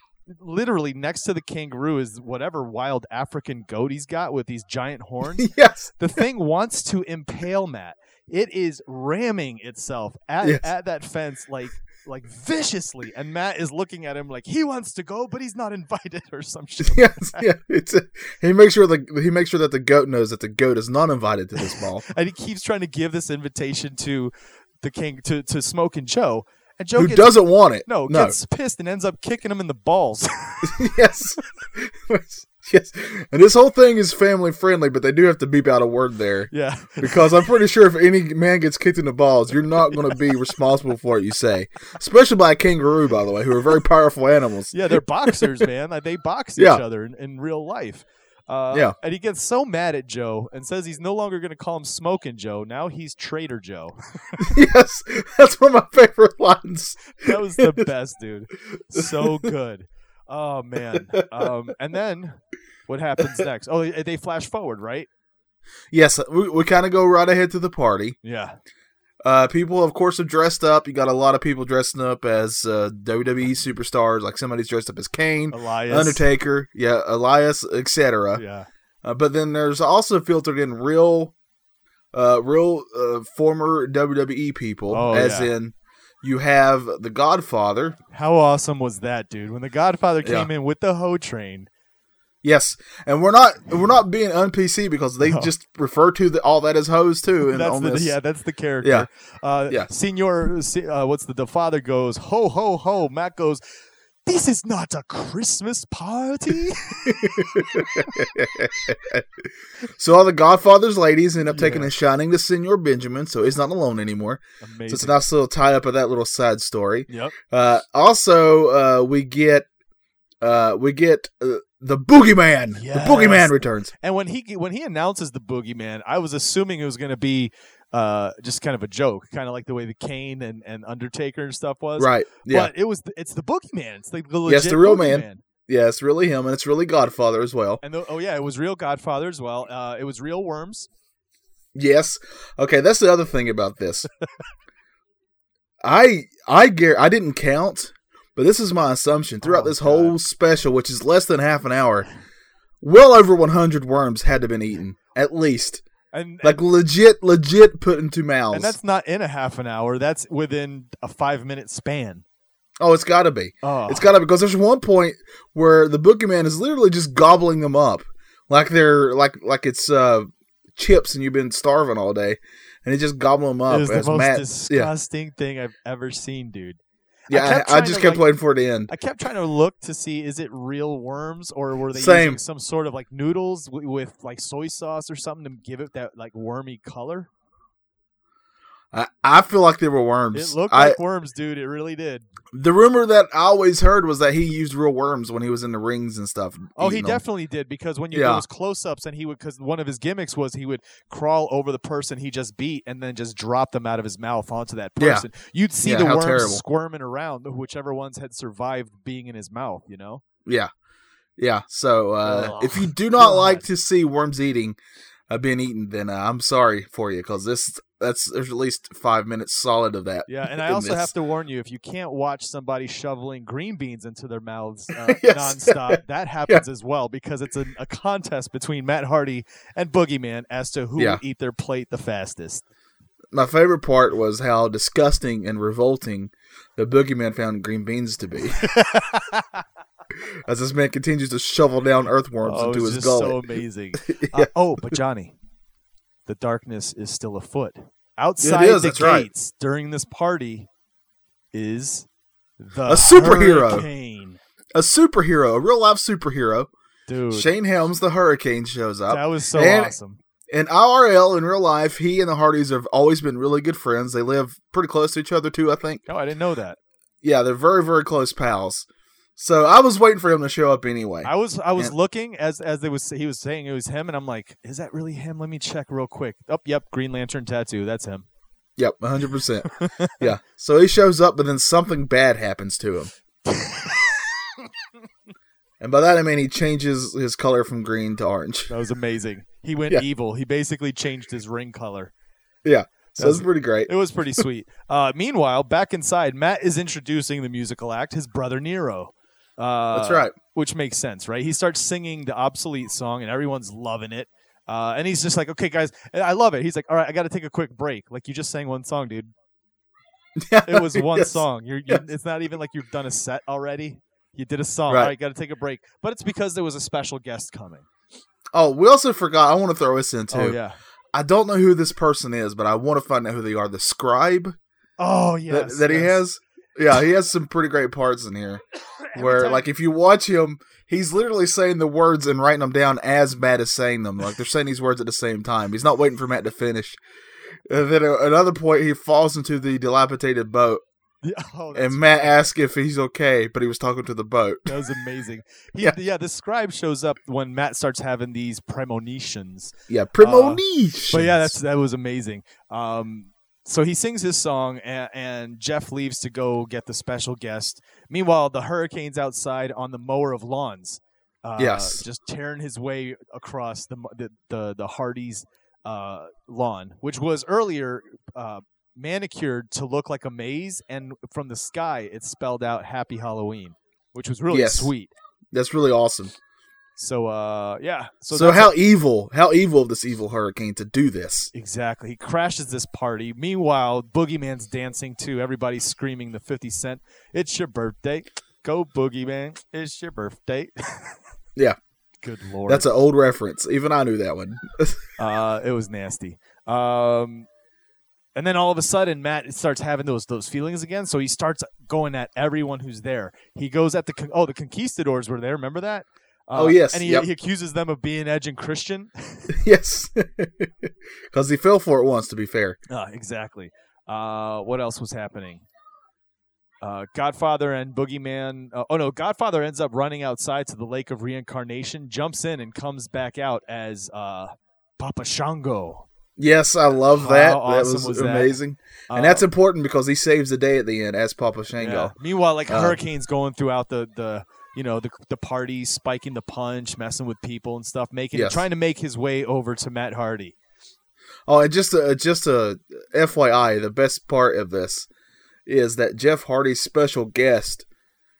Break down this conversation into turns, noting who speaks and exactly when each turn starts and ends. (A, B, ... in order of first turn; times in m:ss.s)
0:00.3-0:17.4 A
0:05.3-0:05.9 B
0:10.4-0:10.7 B
0:16.8-0:22.0 B
0:21.6-0:30.8 A
0:27.0-0:28.3 B
0:30.6-0:45.4 B
0:36.5-0:37.4 A
0:39.9-0:40.3 A
0:44.7-0:54.3 A
0:54.4-0:57.8 B
0:57.1-1:05.1 A
0:59.0-0:59.5 B
1:01.2-1:01.5 B
1:05.9-1:08.2 B
1:08.2-1:08.6 A
1:09.2-1:18.4 B
1:15.5-1:16.2 A
1:18.3-1:18.7 A
1:19.0-1:21.3 B
1:22.1-1:28.0 B
1:24.9-1:25.5 A
1:28.1-1:31.7 A
1:30.2-1:30.5 B
1:32.4-1:38.2 B
1:35.2-1:35.5 A
1:37.4-1:43.6 A
1:44.2-1:47.9 A
1:47.0-1:49.5 B
1:50.0-1:59.7 B
1:51.4-1:51.9 A
1:54.6-1:55.2 A
1:57.1-1:57.4 A
2:00.4-2:03.9 B
2:02.7-2:15.4 A
2:12.0-2:12.7 B
2:14.4-2:17.8 B
2:17.8-2:20.9 A
2:21.7-2:24.1 B
2:25.8-2:32.1 B
2:29.4-2:30.2 A
2:32.8-2:35.8 B
2:36.1-2:36.6 A
2:36.4-2:38.7 B
2:38.5-2:42.2 A
2:42.8-2:54.9 B
2:43.6-2:44.1 A
2:53.7-2:58.3 A
2:57.3-2:58.9 B
2:58.9-3:07.3 A
3:01.9-3:02.4 B
3:08.9-3:11.0 B
3:10.3-3:12.3 A
3:12.5-3:17.2 B
3:16.8-3:30.2 A
3:18.1-3:18.4 B
3:25.0-3:25.3 B
3:25.8-3:26.6 B
3:31.4-3:34.8 B
3:32.2-3:33.6 A
3:35.3-3:41.1 B
3:40.3-3:52.6 A
3:45.0-3:46.6 B
3:53.3-3:58.6 B
3:58.6-3:59.6 A
4:00.5-4:03.4 B
4:02.4-4:05.3 A
4:04.0-4:04.5 B
4:06.2-4:10.7 A
4:08.4-4:09.3 B
4:11.5-4:12.1 A
4:12.6-4:14.4 A
4:12.9-4:13.9 B
4:14.7-4:16.7 B
4:17.1-4:17.5 A
4:17.3-4:19.9 B
4:19.1-4:20.2 A
4:20.5-4:26.0 B
4:26.0-4:26.8 A
4:27.2-4:31.9 B
4:31.2-4:38.3 A
4:38.8-4:43.1 B
4:39.7-4:40.3 A
4:43.5-4:44.2 A
4:45.8-4:48.7 B
4:48.7-4:52.1 A
4:52.6-4:53.9 B
4:53.2-5:09.3 A
4:59.9-5:00.4 B
5:10.4-5:12.0 B
5:10.6-5:17.9 A
5:14.9-5:15.1 B
5:18.5-5:20.6 B
5:20.3-5:20.8 A
5:21.1-5:24.5 B
5:25.0-5:26.2 A
5:25.5-5:28.6 B
5:29.1-5:29.7 A
5:29.1-5:37.0 B
5:37.7-5:40.8 B
5:41.2-5:42.4 A
5:41.7-5:44.9 B
5:44.6-6:15.1 A
5:49.9-5:51.6 B
6:01.6-6:02.0 B
6:14.5-6:14.9 B
6:15.5-6:16.3 B
6:17.0-6:18.7 A
6:18.3-6:21.5 B
6:21.5-6:31.2 A
6:32.2-6:32.9 A
6:32.6-6:35.0 B
6:35.2-6:37.5 A
6:38.4-6:49.5 A
6:46.5-6:47.3 B
6:49.5-6:52.8 B
6:52.9-6:55.6 A
6:56.8-7:06.0 A
7:06.4-7:12.1 B
7:07.1-7:08.6 A
7:09.1-7:09.4 A
7:11.8-7:20.6 A
7:12.7-7:13.0 B
7:18.3-7:18.6 B
7:21.5-7:25.1 B
7:25.6-7:27.8 B